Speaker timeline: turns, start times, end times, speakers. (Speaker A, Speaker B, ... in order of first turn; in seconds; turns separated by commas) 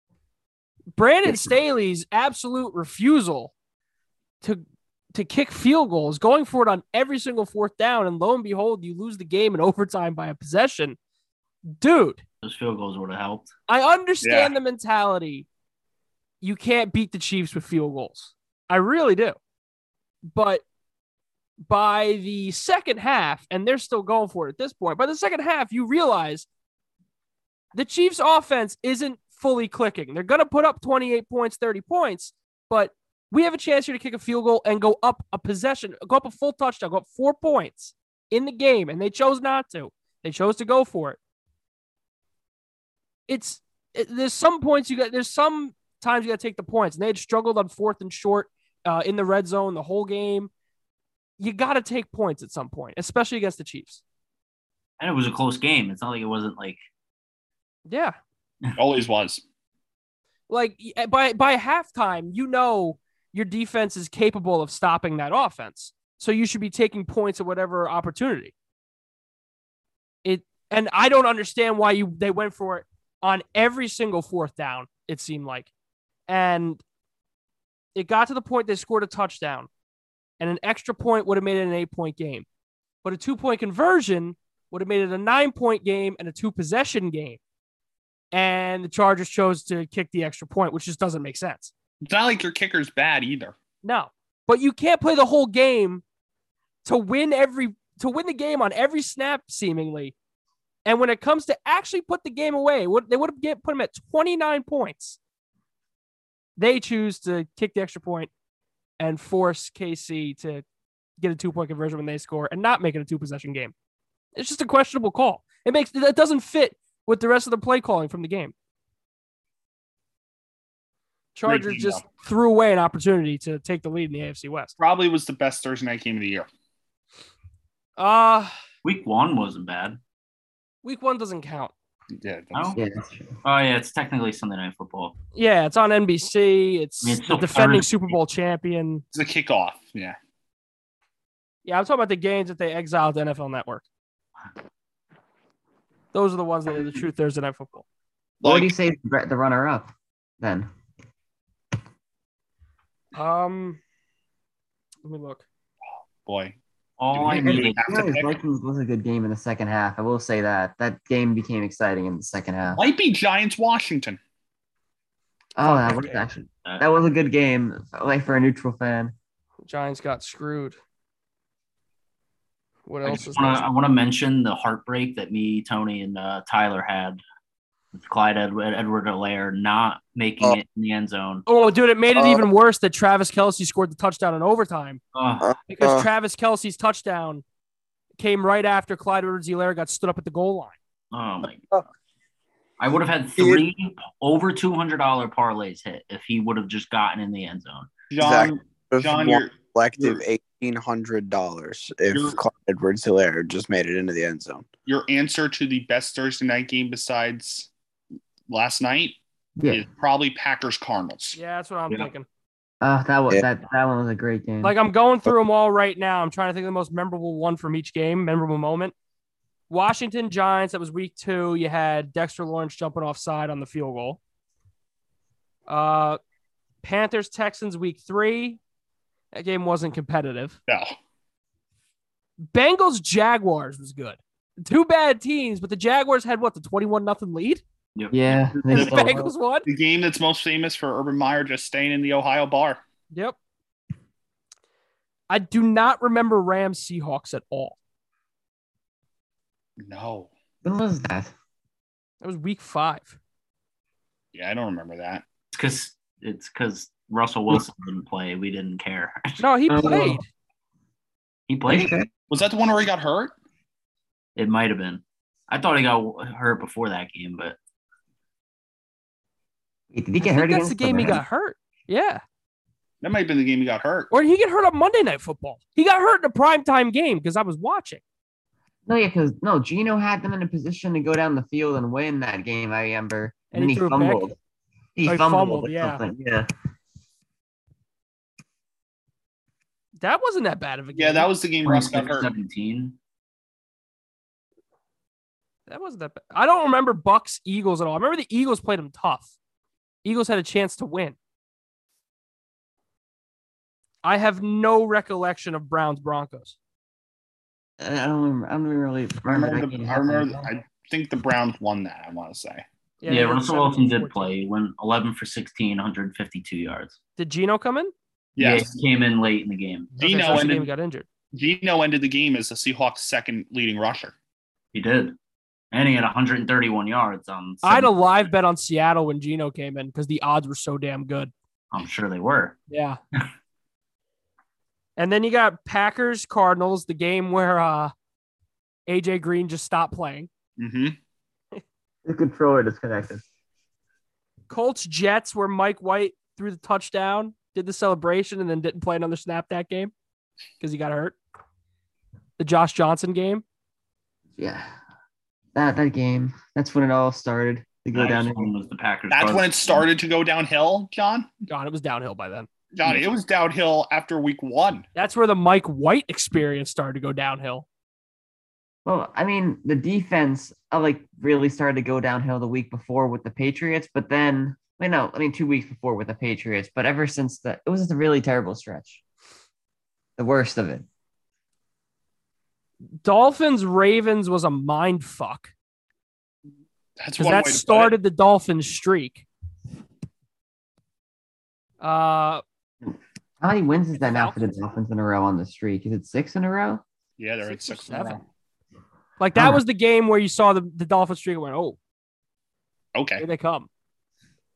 Speaker A: 0.9-3.5, Speaker A: 4.4-11.0, Speaker A: 11.6-12.2, Speaker B: 12.4-13.5, Speaker A: 13.7-15.4, Speaker C: 14.2-14.6, Speaker A: 16.4-19.4, Speaker A: 20.3-20.6, Speaker A: 21.7-26.4, Speaker A: 27.7-41.2, Speaker A: 43.3-50.5, Speaker A: 51.4-54.0, Speaker B: 55.0-56.8, Speaker A: 57.9-58.1, Speaker C: 58.8-59.4, Speaker A: 60.5-68.5, Speaker A: 70.2-75.7, Speaker A: 76.3-76.8, Speaker A: 77.9-79.7, Speaker A: 80.4-82.5, Speaker A: 83.0-87.4, Speaker A: 88.3-91.7, Speaker C: 92.0-93.5, Speaker A: 93.8-96.0, Speaker A: 96.8-100.1, Speaker A: 100.8-105.2, Speaker A: 106.6-108.3, Speaker A: 109.0-110.6, Speaker A: 111.2-113.7, Speaker A: 114.3-118.5, Speaker A: 121.3-124.7, Speaker C: 121.5-122.0, Speaker C: 124.8-126.5, Speaker A: 128.0-128.5, Speaker B: 128.8-130.0, Speaker A: 130.8-131.7, Speaker C: 132.2-132.8, Speaker B: 132.5-132.8, Speaker D: 132.7-133.3, Speaker B: 133.4-135.1, Speaker A: 135.3-139.0, Speaker B: 137.0-138.1, Speaker C: 139.1-140.2, Speaker A: 141.6-143.8, Speaker A: 146.1-147.8, Speaker C: 148.4-148.7, Speaker D: 148.4-150.7, Speaker A: 153.1-153.8, Speaker A: 155.0-155.4, Speaker C: 156.2-156.6, Speaker B: 157.0-158.0, Speaker C: 157.1-158.3, Speaker D: 157.2-162.8, Speaker C: 162.7-164.2, Speaker D: 165.6-169.1, Speaker A: 165.6-166.3, Speaker A: 169.7-170.8, Speaker A: 172.9-173.7, Speaker B: 173.0-177.2, Speaker B: 177.9-181.4, Speaker A: 181.4-185.0, Speaker E: 182.1-182.5, Speaker B: 185.1-185.5, Speaker E: 185.4-186.1, Speaker A: 185.7-187.4, Speaker A: 188.2-190.7, Speaker B: 191.1-191.6, Speaker B: 192.8-197.9, Speaker E: 193.4-193.6, Speaker C: 198.1-200.2, Speaker E: 198.2-204.7, Speaker C: 202.1-202.4, Speaker C: 204.8-207.7, Speaker C: 208.5-211.4, Speaker D: 209.6-209.8, Speaker A: 211.3-212.2, Speaker D: 212.8-214.7, Speaker A: 214.6-218.9, Speaker A: 219.7-224.2, Speaker A: 225.7-226.2, Speaker A: 226.8-228.6, Speaker A: 229.3-230.6, Speaker C: 230.7-230.9, Speaker A: 232.5-237.6, Speaker B: 237.9-238.5, Speaker D: 238.1-239.3, Speaker A: 238.7-239.7, Speaker C: 238.7-242.8, Speaker A: 245.3-247.8, Speaker C: 249.8-250.3, Speaker D: 250.6-251.3, Speaker A: 252.2-253.2, Speaker C: 254.3-255.2, Speaker B: 255.5-259.4, Speaker A: 259.4-260.3, Speaker D: 259.7-260.2, Speaker B: 261.5-261.9, Speaker D: 261.7-262.1, Speaker C: 262.3-263.3, Speaker B: 264.4-267.6, Speaker D: 269.9-271.2, Speaker A: 270.2-272.2, Speaker C: 273.0-274.1, Speaker A: 274.1-278.0, Speaker D: 278.9-284.4, Speaker A: 283.5-284.3, Speaker D: 284.9-286.5, Speaker A: 285.1-286.0, Speaker A: 290.0-291.3, Speaker C: 290.9-292.3, Speaker B: 291.6-292.9, Speaker A: 295.7-299.3, Speaker A: 300.0-301.1, Speaker A: 304.0-306.5, Speaker D: 307.8-310.5, Speaker C: 309.3-312.6, Speaker A: 313.0-314.3, Speaker B: 313.1-317.0, Speaker A: 317.2-317.9, Speaker C: 318.4-318.7, Speaker B: 318.4-320.5, Speaker C: 319.9-320.7, Speaker A: 320.0-321.0, Speaker C: 321.3-324.1, Speaker B: 324.7-325.1, Speaker B: 325.7-327.9, Speaker A: 327.6-331.3, Speaker B: 331.7-332.6, Speaker A: 332.7-333.0, Speaker A: 335.0-337.9, Speaker A: 338.9-340.3, Speaker C: 340.6-340.9, Speaker D: 342.0-343.2, Speaker A: 344.5-349.9, Speaker A: 350.6-351.1, Speaker A: 352.4-353.4, Speaker D: 354.4-354.7, Speaker D: 355.5-358.5, Speaker B: 357.9-359.9, Speaker C: 359.1-361.3, Speaker A: 361.5-362.5, Speaker C: 362.7-364.9, Speaker A: 364.9-367.6, Speaker D: 368.8-379.0, Speaker D: 380.2-380.8, Speaker A: 383.0-385.5, Speaker C: 387.0-388.0, Speaker A: 387.2-389.2, Speaker A: 391.8-392.4, Speaker D: 392.9-396.8, Speaker A: 394.0-394.4, Speaker C: 397.2-398.2, Speaker A: 397.4-398.2, Speaker A: 399.2-401.8, Speaker D: 399.3-399.6, Speaker C: 402.9-403.2, Speaker A: 403.2-403.7